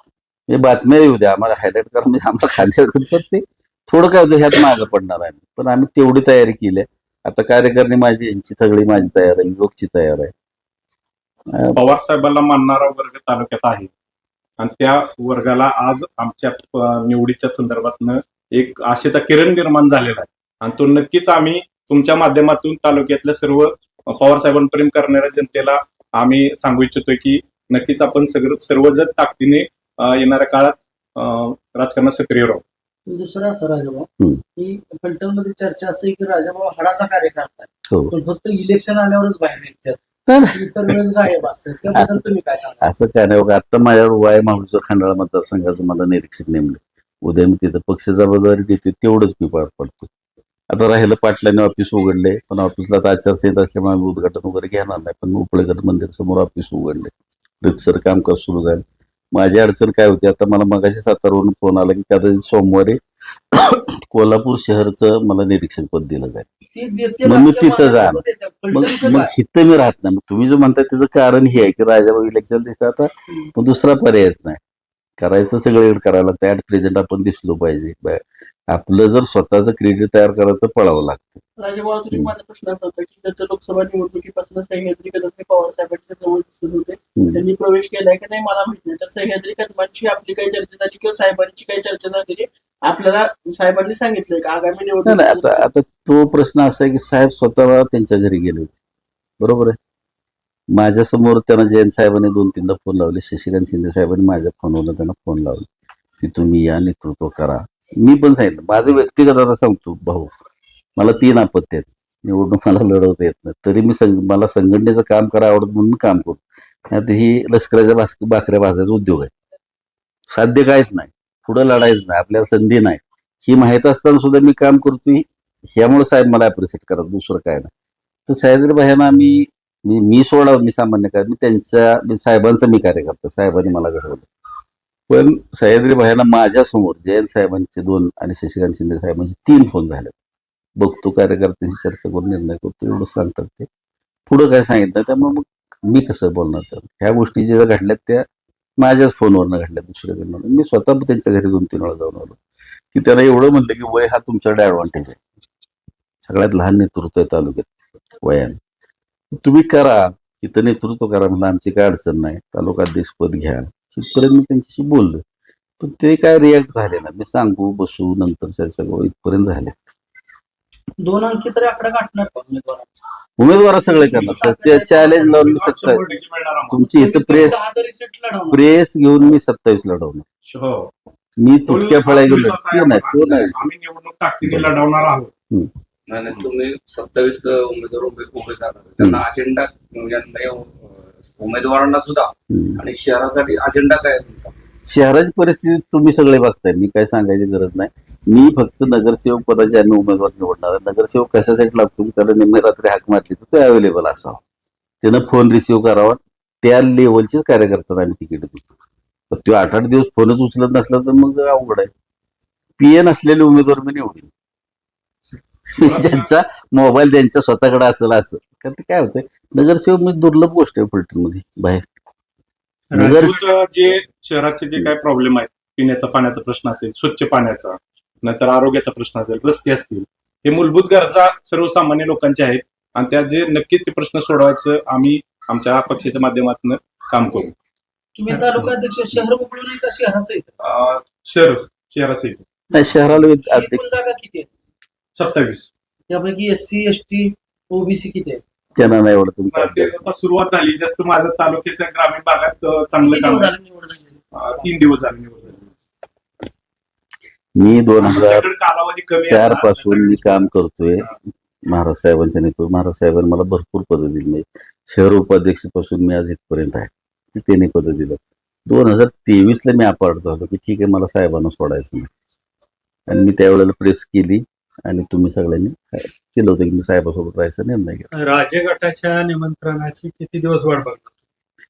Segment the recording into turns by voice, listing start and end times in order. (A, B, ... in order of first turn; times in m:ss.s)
0:00.5-0:10.3 A
0:11.5-0:11.8 A
0:11.7-0:13.9 B
0:14.6-0:32.6 B
0:33.1-0:40.0 C
0:40.3-0:41.0 A
0:40.5-0:42.9 C
0:41.9-0:42.2 A
0:42.8-0:50.1 A
0:50.7-1:03.0 A
1:03.5-1:06.4 A
1:06.7-1:09.3 C
1:07.2-1:14.6 A
1:15.2-1:21.4 A
1:21.6-1:35.7 D
1:27.2-1:27.4 A
1:35.0-1:38.8 A
1:39.4-1:39.8 A
1:40.7-1:45.7 A
1:46.2-1:50.3 A
1:51.0-1:59.3 A
2:00.3-2:05.2 A
2:05.8-2:07.7 A
2:08.3-2:14.3 A
2:15.1-2:20.2 A
2:20.8-2:23.7 A
2:24.3-2:28.3 A
2:28.8-2:32.4 A
2:32.9-2:35.2 A
2:36.2-2:38.6 A
2:39.4-2:45.2 A
2:45.8-2:49.7 A
2:51.0-2:53.0 C
2:53.4-2:56.0 A
2:53.8-2:56.0 C
2:54.1-2:54.4 B
2:55.1-2:56.8 B
2:56.7-2:57.6 A
2:56.8-2:58.7 C
2:58.5-3:00.2 A
3:00.5-3:00.9 B
3:01.4-3:03.6 A
3:01.7-3:05.3 B
3:04.4-3:04.8 A
3:06.1-3:14.5 E
3:12.5-3:12.8 A
3:14.9-3:24.4 A
3:25.0-3:28.6 A
3:29.3-3:31.9 A
3:32.8-3:34.3 A
3:35.7-3:41.9 A
3:35.8-3:36.3 B
3:42.9-3:43.4 F
3:43.0-3:43.4 A
3:43.1-3:57.5 B
3:58.2-4:00.5 C
4:00.6-4:02.4 B
4:02.7-4:03.9 A
4:03.4-4:04.5 C
4:05.2-4:05.7 B
4:06.1-4:08.4 C
4:08.8-4:10.0 A
4:09.5-4:13.5 B
4:13.0-4:14.2 C
4:14.3-4:15.7 B
4:17.6-4:18.4 A
4:18.0-4:20.5 B
4:19.2-4:21.1 A
4:21.7-4:32.1 A
4:33.1-4:38.1 A
4:38.1-4:41.1 F